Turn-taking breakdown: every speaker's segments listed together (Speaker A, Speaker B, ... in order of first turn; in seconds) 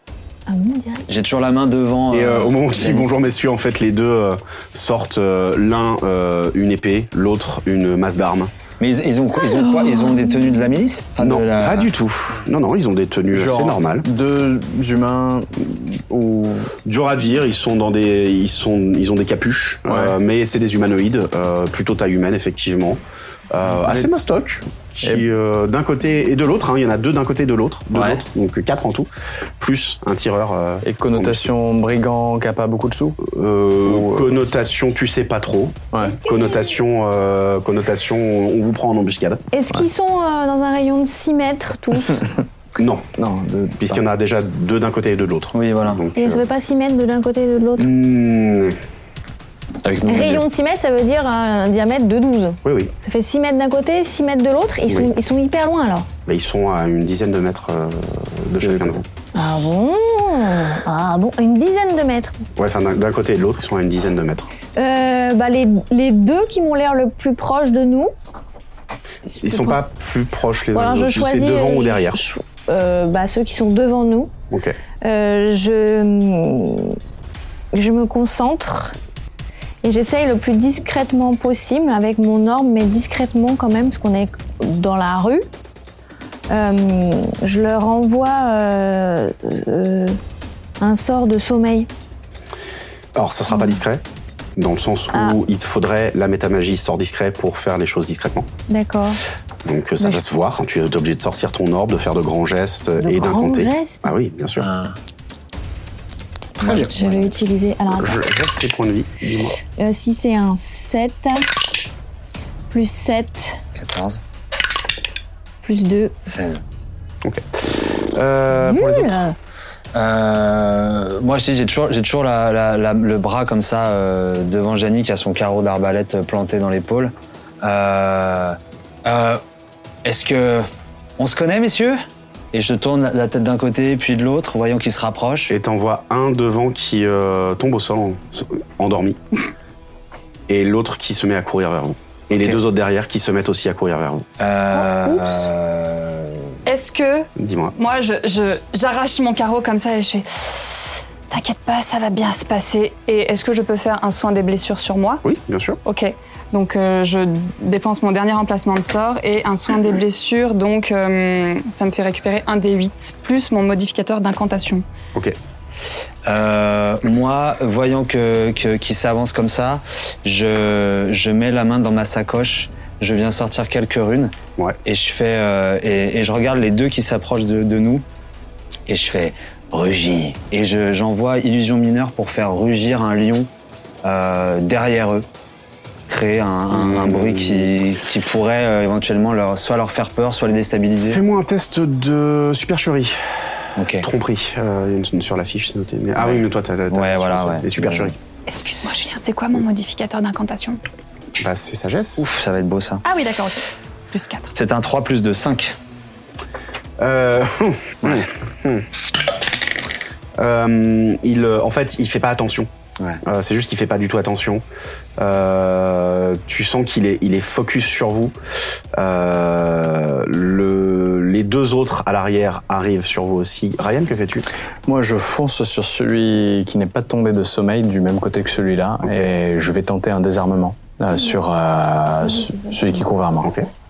Speaker A: 0.5-1.1, 9.8-10.4, 36.0-36.8, 39.5-42.2, 46.1-47.9, 50.0-56.1, 59.3-62.4, 64.8-68.1, 69.4-69.8, 70.7-74.3, 75.0-77.0, 77.7-79.0, 79.8-85.5, 86.5-90.2, 90.8-91.9, 93.5-93.8, 95.1-95.4, 98.7-99.2, 103.0-104.1, 106.6-108.2, 109.8-111.5, 112.7-113.6, 115.6-116.2, 118.5-119.3
Speaker B: 1.1-3.2, 8.8-11.9, 27.9-28.2, 45.5-46.0, 104.6-105.0, 106.6-107.3, 113.8-114.2, 116.2-116.6, 119.9-129.4, 130.0-130.7, 131.2-135.5, 144.4-146.5, 166.2-178.0, 178.9-183.5, 184.0-185.2, 186.1-191.2, 193.8-194.1, 196.2-198.1, 202.2-203.0, 204.5-205.8
Speaker C: 2.1-8.5, 11.2-14.1, 16.8-31.5, 33.2-39.4, 42.8-43.1, 43.8-46.4, 47.8-48.8, 52.6-52.9, 56.2-59.0, 62.5-64.5, 69.4-72.2, 74.5-74.8, 93.1-94.0, 94.5-98.5, 99.6-104.7, 106.6-106.9, 108.0-109.5, 117.2-119.3, 135.5-139.2, 140.5-144.3, 147.3-147.8, 155.2-155.8, 186.7-187.8, 191.0-198.2, 201.4-202.3, 207.0-208.9, 210.4-212.7, 213.2-214.6, 215.2-218.3, 218.9-224.5, 233.4-233.7
Speaker D: 13.3-16.8, 19.9-20.1, 30.8-33.2, 33.9-34.3, 35.9-36.2, 43.1-44.0, 49.8-50.4, 58.6-59.0, 224.8-233.5
Speaker E: 144.7-145.4, 146.7-155.2, 155.8-164.8, 198.5-200.8, 203.0-204.5